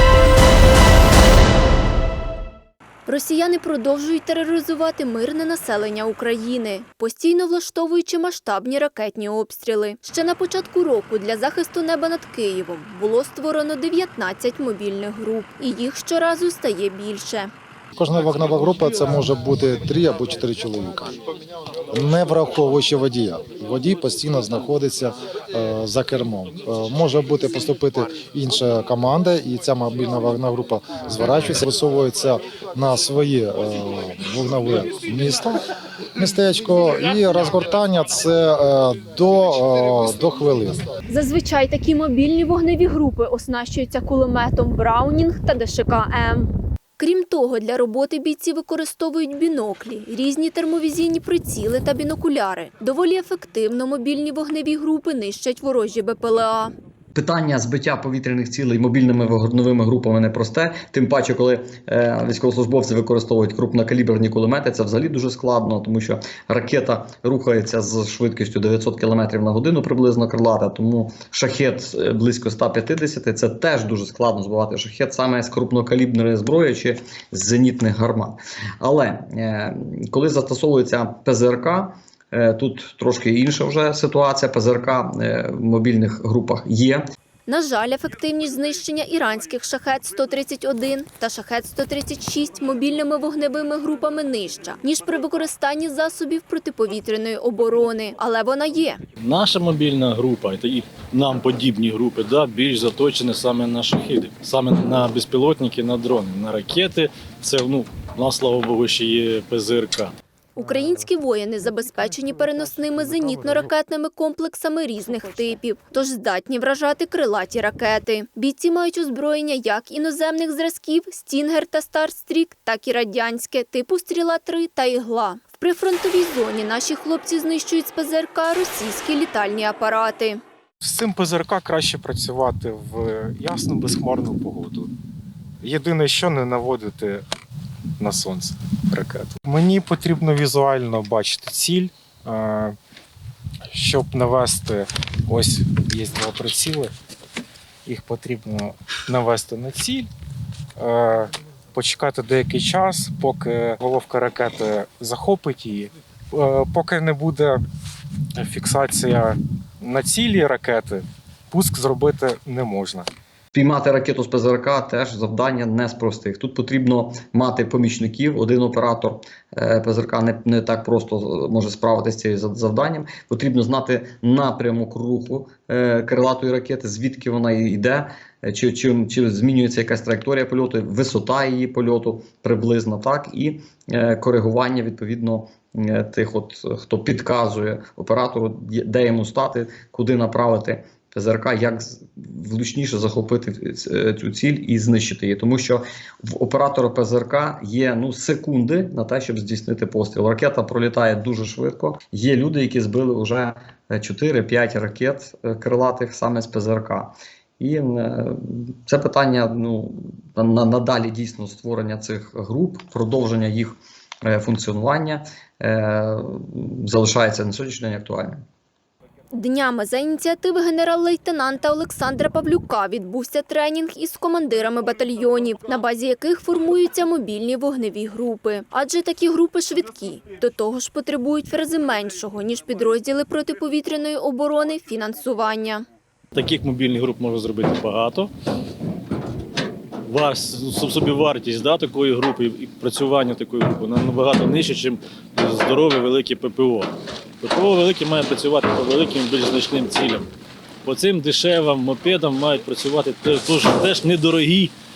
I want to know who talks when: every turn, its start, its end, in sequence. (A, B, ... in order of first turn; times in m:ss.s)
0:03.1-0:17.5 A
0:18.0-0:21.2 B
0:21.9-0:35.6 B
0:36.2-0:40.8 B
0:41.1-0:56.7 A
0:57.1-1:27.0 C
1:27.5-1:39.0 A
1:39.2-1:50.1 D
1:50.5-2:10.4 A
2:10.8-2:14.9 E
2:15.6-2:17.2 E
2:18.0-2:22.7 E
2:23.7-2:26.9 E
2:27.8-2:30.1 E
2:30.8-2:37.6 E
2:38.4-2:43.0 E
2:43.5-3:38.4 C
3:39.3-3:55.8 A
3:56.3-3:58.3 D
4:00.1-4:10.3 D
4:10.8-4:14.7 D